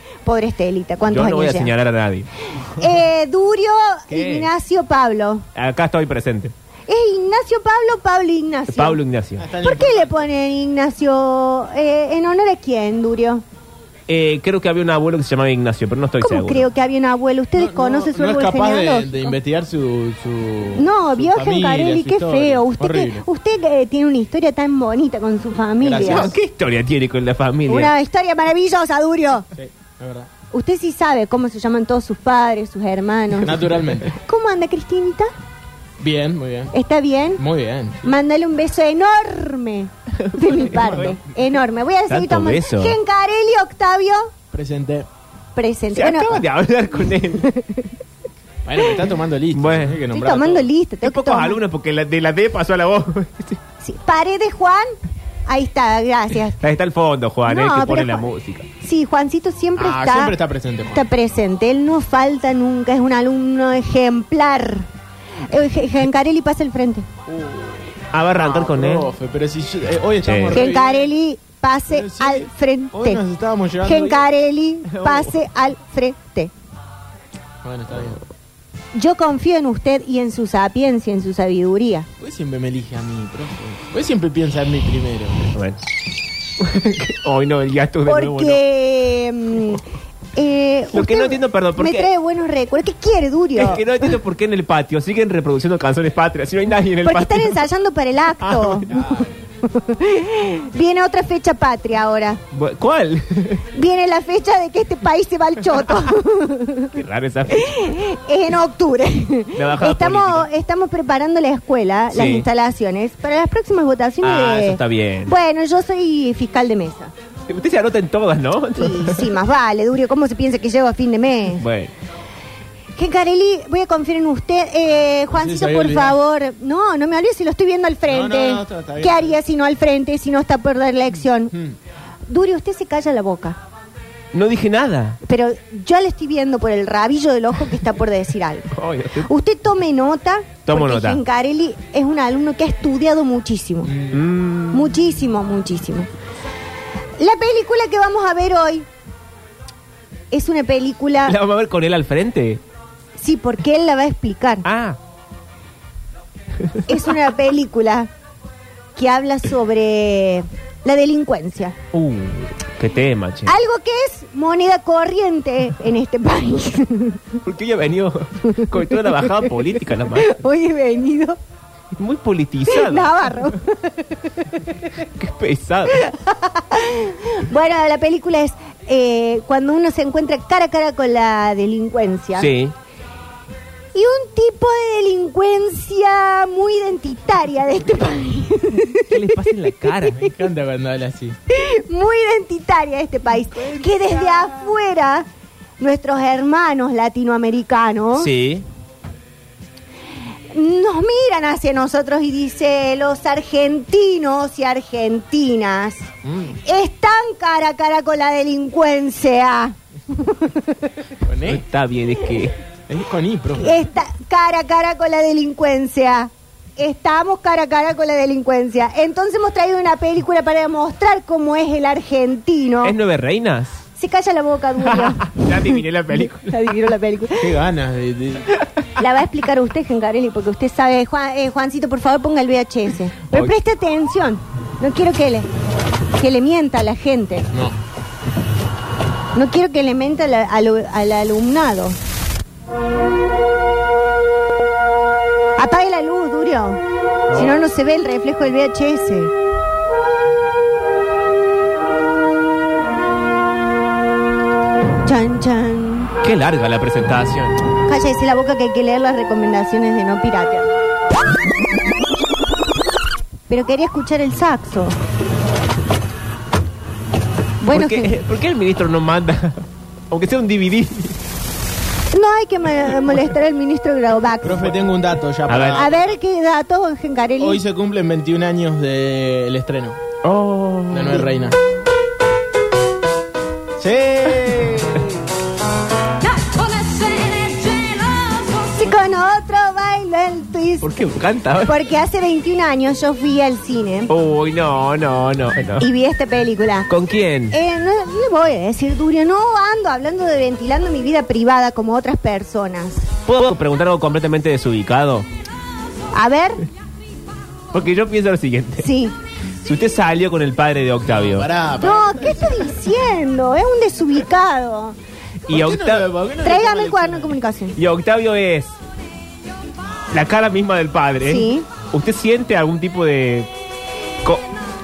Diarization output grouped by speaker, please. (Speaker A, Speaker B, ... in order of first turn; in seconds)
Speaker A: 0.2-1.7, 2.7-5.5, 6.9-9.0, 9.6-13.4, 16.2-19.3, 20.8-26.3, 27.7-29.4, 30.5-35.3, 36.7-37.4, 38.0-44.3, 45.5-46.4, 47.3-47.9, 50.1-51.6, 53.8-55.0, 55.5-56.6, 57.5-58.3, 58.8-60.4, 60.9-64.9, 65.5-67.0, 70.5-73.2, 73.8-76.5, 78.9-82.1, 88.0-89.8, 90.3-94.1, 97.0-99.0, 99.6-102.4, 103.7-107.0, 107.5-117.1, 118.8-121.6, 123.0-131.5, 132.3-133.6, 135.2-138.7, 139.2-143.9, 144.7-146.1, 147.2-148.9, 150.3-151.4, 153.2-154.7, 156.8-158.1, 158.9-161.8, 163.4-167.4, 168.5-169.4, 170.1-171.4, 172.7-174.7, 175.9-182.5, 183.9-189.5, 191.5-195.3, 195.8-198.3, 200.5-206.1, 206.6-210.9, 213.6-222.9, 223.9-227.6, 229.0-235.5, 236.2-237.5, 239.3-242.0, 245.6-246.8, 247.3-249.3, 255.0-256.1, 257.9-260.7, 263.5-265.0, 267.6-268.2, 272.1-274.7, 275.7-277.6, 288.5-291.0, 291.6-294.1, 295.8-296.9, 297.5-303.1, 306.1-306.6, 308.8-309.1, 311.8-315.0, 316.4-317.8, 321.2-321.7
Speaker B: 1.1-2.3, 4.1-4.5, 5.5-6.5, 8.7-9.5, 14.1-16.7, 26.0-27.9, 40.2-41.2, 42.1-43.0, 45.9-47.5, 49.5-50.1, 51.0-53.6, 56.6-58.7, 68.1-69.1, 70.2-70.7, 74.9-75.4, 85.5-85.8, 86.6-88.6, 90.9-92.1, 93.5-97.6, 98.4-98.9, 102.5-103.7, 106.9-107.9, 109.5-110.5, 112.1-112.5, 114.2-115.3, 117.5-119.3, 121.6-121.9, 134.3-135.2, 138.7-139.3, 140.7-141.2, 144.1-145.0, 151.2-152.6, 154.6-155.0, 161.9-163.5, 167.4-170.4, 171.9-173.6, 175.0-176.0, 182.4-182.7, 189.1-190.2, 198.2-198.7, 211.4-212.6, 222.8-223.8, 224.8-226.7, 247.3-247.6, 256.2-257.6, 267.7-271.2, 275.5-275.9, 280.2-281.3, 290.8-291.7, 294.1-295.9, 296.9-297.6, 303.2-305.3, 307.7-308.9, 309.6-311.5, 315.5-316.1, 317.8-318.8, 320.1-323.5
Speaker C: 9.4-10.2, 17.5-23.2, 25.8-26.3, 29.6-30.3, 33.4-34.1, 36.0-36.7, 37.4-38.0, 44.5-45.1, 48.6-50.7, 59.8-61.0, 68.3-71.1, 71.9-74.3, 77.6-78.2, 82.2-85.5, 98.9-99.3, 125.3-126.2, 128.1-129.3, 143.8-144.2, 190.2-191.4, 206.2-206.5, 211.2-211.6, 212.9-213.8, 227.4-228.5, 274.4-276.1, 277.4-280.0, 280.9-281.6, 283.8-285.2, 311.0-312.7, 315.5-317.4